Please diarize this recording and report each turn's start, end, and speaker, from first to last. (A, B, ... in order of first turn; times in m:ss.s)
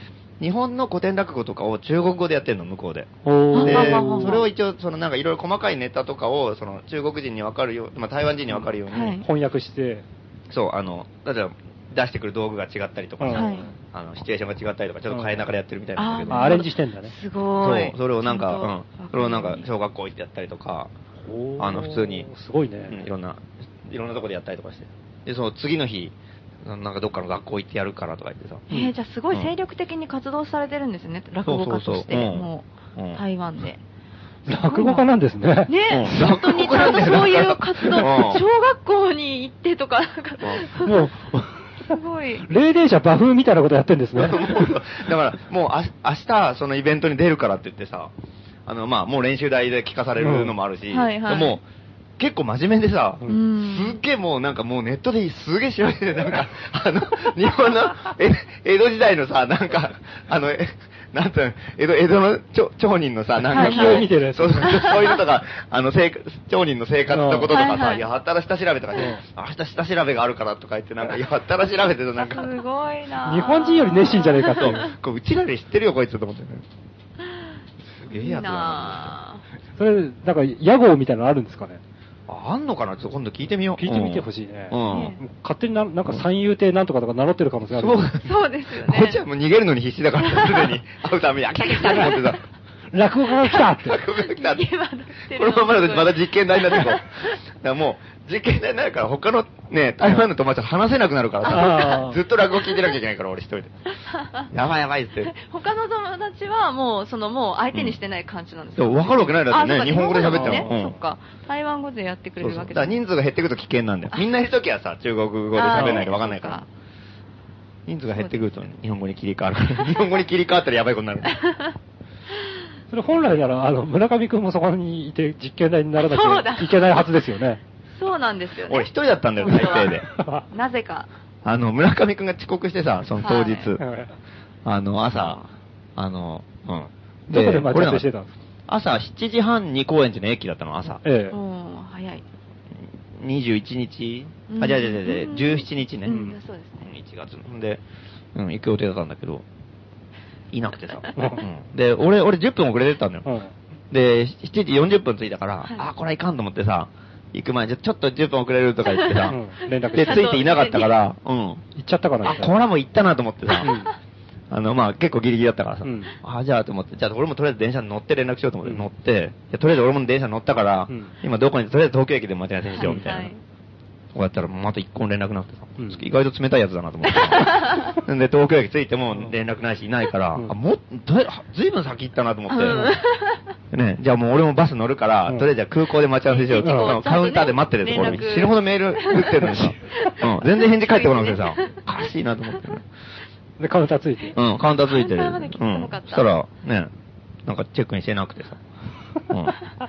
0:00.4-0:09.2 A
0:03.2-0:04.4 B
0:03.5-0:04.5 C
0:08.9-0:09.2 C
0:09.2-0:10.0 B
0:10.5-0:16.6 A
0:13.2-0:13.6 B
0:13.3-0:13.7 C
0:15.1-0:15.4 B
0:16.0-0:19.6 C
0:16.3-0:17.1 B
0:17.6-0:20.9 A
0:21.2-0:23.0 B
0:21.6-0:22.3 A
0:22.9-0:28.6 A
0:28.7-0:33.8 C
0:31.4-0:33.2 A
0:34.5-0:36.4 B
0:34.6-0:35.0 C
0:35.7-0:41.0 C
0:35.9-0:38.4 A
0:40.8-0:44.6 B
0:41.9-0:42.5 C
0:44.2-0:48.1 A
0:48.6-0:51.6 A
0:50.2-0:50.5 B
0:50.9-0:51.6 C
0:52.2-1:12.5 A
0:53.3-0:54.0 C
1:03.5-1:04.8 B
1:03.5-1:04.1 C
1:04.6-1:05.2 C
1:07.1-1:07.6 B
1:07.5-1:08.0 C
1:09.0-1:09.2 B
1:12.2-1:14.8 C
1:13.2-1:14.9 B
1:14.6-1:16.6 A
1:17.2-1:17.5 C
1:18.0-1:19.2 A
1:18.1-1:19.4 C
1:19.8-1:21.8 B
1:22.3-1:25.2 A
1:23.8-1:28.1 B
1:24.9-1:25.2 C
1:27.7-1:32.4 A
1:28.2-1:29.2 C
1:30.2-1:30.8 C
1:31.6-1:32.4 C
1:32.9-1:34.0 B
1:33.3-1:37.4 C
1:33.8-1:34.7 A
1:35.3-1:43.8 A
1:41.4-1:42.2 B
1:41.6-1:41.9 C
1:44.1-1:44.5 C
1:44.5-1:45.3 A
1:45.2-1:53.0 C
1:47.7-1:48.0 A
1:48.8-1:50.9 A
1:50.3-1:50.8 B
1:52.4-1:56.6 A
1:55.5-1:56.7 C
1:55.7-1:56.0 B
1:57.8-2:01.4 A
1:58.1-1:58.5 C
2:01.3-2:01.7 C
2:02.9-2:07.6 B
2:06.0-2:07.0 C
2:08.0-2:08.9 C
2:08.6-2:10.0 A
2:09.4-2:11.1 C
2:10.1-2:10.4 B
2:11.4-2:13.8 A
2:13.2-2:13.7 C
2:13.8-2:14.1 B
2:14.6-2:15.4 A
2:15.1-2:15.4 C
2:16.0-2:18.0 A
2:17.3-2:18.3 B
2:18.7-2:21.0 A
2:21.0-2:21.4 B
2:21.3-2:22.2 C
2:23.1-2:26.2 A
2:24.5-2:26.9 C
2:26.1-2:26.4 B
2:26.8-2:27.8 A
2:28.3-2:29.4 A
2:30.5-2:33.2 A
2:31.2-2:31.4 B
2:33.2-2:33.5 B
2:33.9-2:39.4 A
2:38.9-2:41.0 C
2:39.3-2:40.3 B
2:39.9-2:41.6 A
2:41.8-2:42.5 B
2:42.2-2:43.9 A
2:43.5-2:43.8 C
2:43.6-2:43.9 B
2:44.5-2:53.3 A
2:45.8-2:46.2 B
2:52.7-2:53.4 C
2:54.1-3:02.9 A
2:55.8-2:56.0 B
2:57.1-2:58.0 C
3:02.5-3:03.5 C
3:02.6-3:02.9 B
3:03.7-3:12.8 A
3:06.2-3:12.8 C
3:06.6-3:07.0 B
3:09.4-3:09.7 B
3:13.6-3:14.4 B
3:14.3-3:16.9 A
3:14.8-3:16.3 C
3:17.4-3:18.6 A
3:19.3-3:19.6 A